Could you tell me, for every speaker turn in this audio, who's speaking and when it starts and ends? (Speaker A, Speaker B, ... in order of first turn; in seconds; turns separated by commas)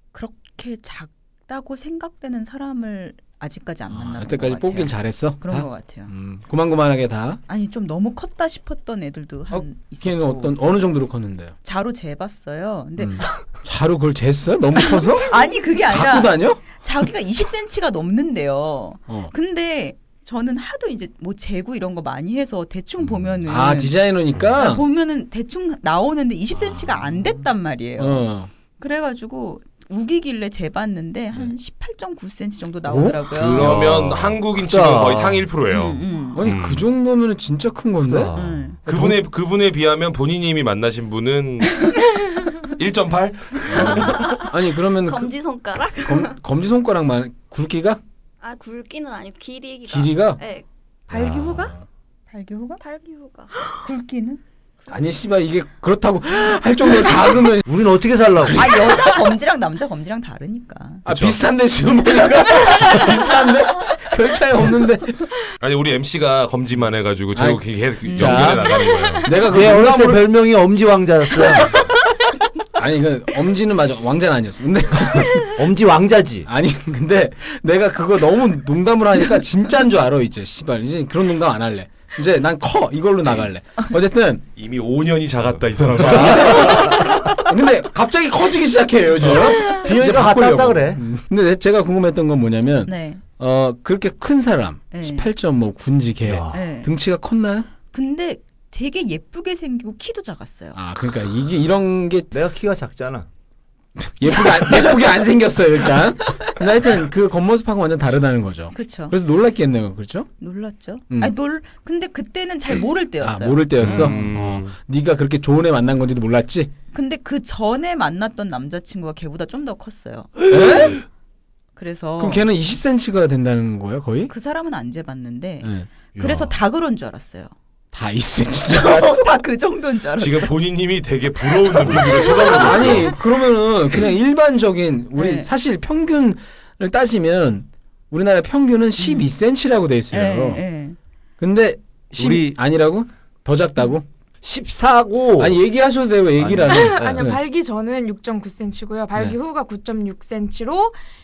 Speaker A: 0.1-6.1, Speaker B: 3.9-7.4, Speaker A: 7.5-10.6, Speaker B: 9.5-11.6, Speaker A: 11.6-13.3, Speaker B: 13.0-16.6, Speaker A: 14.8-24.0, Speaker B: 19.1-19.3, Speaker B: 23.5-24.8, Speaker A: 24.5-28.3, Speaker B: 26.6-27.4, Speaker B: 28.0-28.5, Speaker A: 28.8-33.8, Speaker B: 32.9-33.2, Speaker C: 33.3-35.5, Speaker D: 33.4-36.9, Speaker A: 35.7-36.4, Speaker B: 36.3-38.3, Speaker C: 38.1-38.7, Speaker A: 38.3-38.8, Speaker B: 38.9-39.2, Speaker D: 38.9-44.4, Speaker B: 43.7-45.3, Speaker E: 43.7-46.4, Speaker B: 45.9-48.0, Speaker E: 48.4-50.6, Speaker B: 49.9-50.4, Speaker B: 51.1-51.8, Speaker F: 51.2-51.7, Speaker A: 52.3-52.8, Speaker E: 52.8-53.5, Speaker A: 53.8-54.4, Speaker B: 54.9-57.7, Speaker C: 57.6-58.9, Speaker B: 58.4-59.1, Speaker A: 58.5-61.0, Speaker B: 61.0-65.2, Speaker D: 61.1-61.4, Speaker D: 65.6-69.3, Speaker B: 67.3-67.6, Speaker A: 68.0-68.9, Speaker B: 68.1-70.2, Speaker C: 69.4-71.8, Speaker B: 72.7-75.6, Speaker C: 75.5-76.5, Speaker B: 76.5-84.4, Speaker D: 84.6-87.2, Speaker B: 86.0-97.7, Speaker D: 89.2-89.5, Speaker C: 89.7-91.0, Speaker A: 92.8-93.2, Speaker A: 94.9-95.3, Speaker C: 96.2-96.6, Speaker A: 96.5-96.9, Speaker A: 97.9-100.8, Speaker B: 100.7-102.3, Speaker C: 102.3-103.3, Speaker B: 104.0-110.3, Speaker A: 108.7-109.2, Speaker A: 110.4-114.3, Speaker B: 113.2-116.7, Speaker D: 113.8-114.7, Speaker A: 116.9-120.4, Speaker B: 120.5-121.0, Speaker A: 121.8-122.5, Speaker B: 122.2-124.3, Speaker A: 124.3-127.5, Speaker B: 125.6-125.9, Speaker C: 126.2-126.5, Speaker B: 127.9-129.4, Speaker A: 128.7-130.5, Speaker D: 130.2-133.1, Speaker A: 131.8-133.1, Speaker B: 132.1-140.6, Speaker A: 135.2-135.5, Speaker A: 139.0-139.3, Speaker A: 140.1-141.0, Speaker B: 141.4-144.1, Speaker C: 142.2-142.5, Speaker C: 144.4-145.6, Speaker B: 145.4-147.4, Speaker C: 146.4-147.3, Speaker F: 146.7-150.9